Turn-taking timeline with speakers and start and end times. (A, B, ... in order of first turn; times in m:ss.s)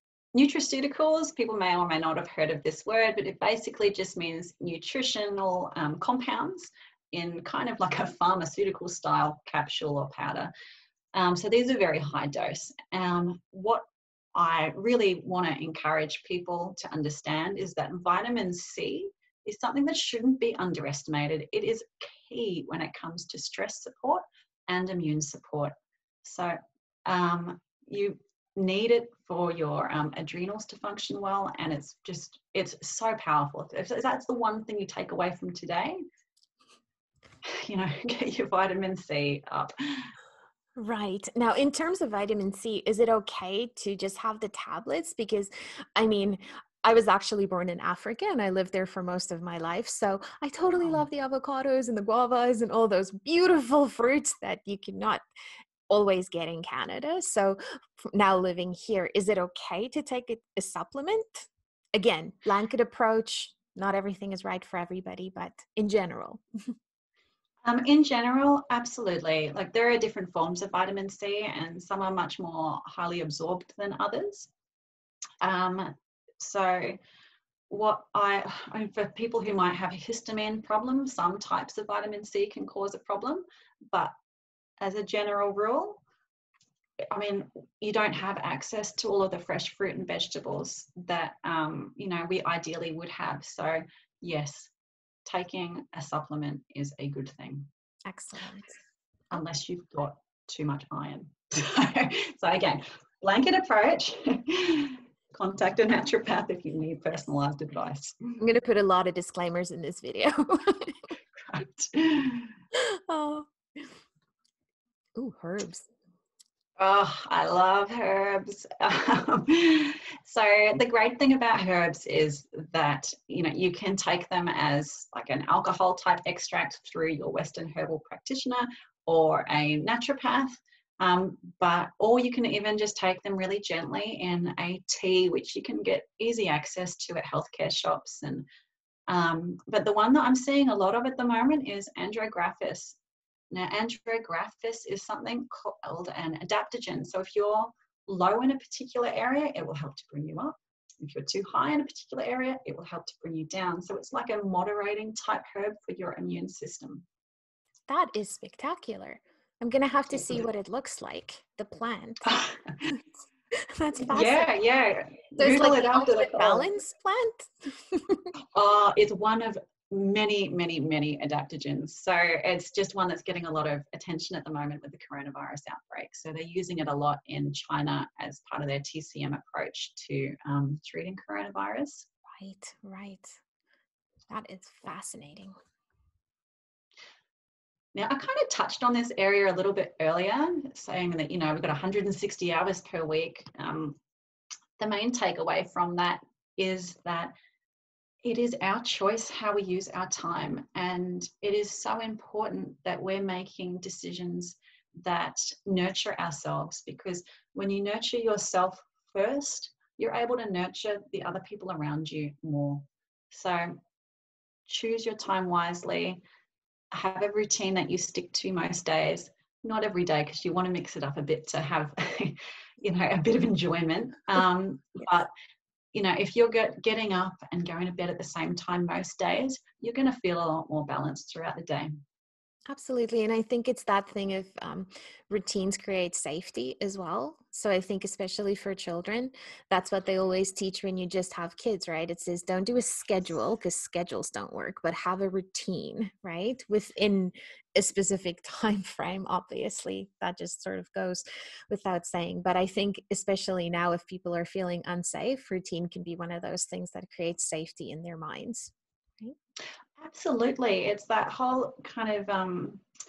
0:00.3-0:10.5 A
0:11.1-0:13.8 A
0:14.4-0:25.7 A
0:26.2-0:36.0 A
0:37.5-0:40.1 A
0:40.8-0:55.2 B
0:55.9-1:06.7 B
1:07.6-1:14.5 A
1:15.4-1:17.0 A
1:17.7-1:24.1 A
1:24.8-1:26.0 A
1:27.1-1:34.7 A
1:35.2-1:37.7 A
1:38.1-1:38.8 B
1:39.3-1:48.4 A
1:48.4-1:51.0 B
1:51.4-1:52.5 A
1:52.7-1:53.9 B
1:55.2-1:55.9 B
1:56.8-2:18.4 A
2:19.1-2:23.0 A
2:23.5-2:37.1 A
2:37.9-2:42.3 B
2:42.3-2:42.8 A
2:42.9-2:44.5 B
2:44.1-2:46.7 A
2:45.4-2:48.3 B
2:48.5-3:02.1 A
3:02.3-3:03.4 B
3:04.3-3:05.5 B
3:08.0-3:14.0 A
3:14.8-3:17.3 A
3:18.2-3:33.8 A
3:34.7-3:36.2 A
3:36.9-3:45.3 A
3:45.9-3:51.9 A
3:52.7-4:19.4 B
4:20.0-4:22.8 A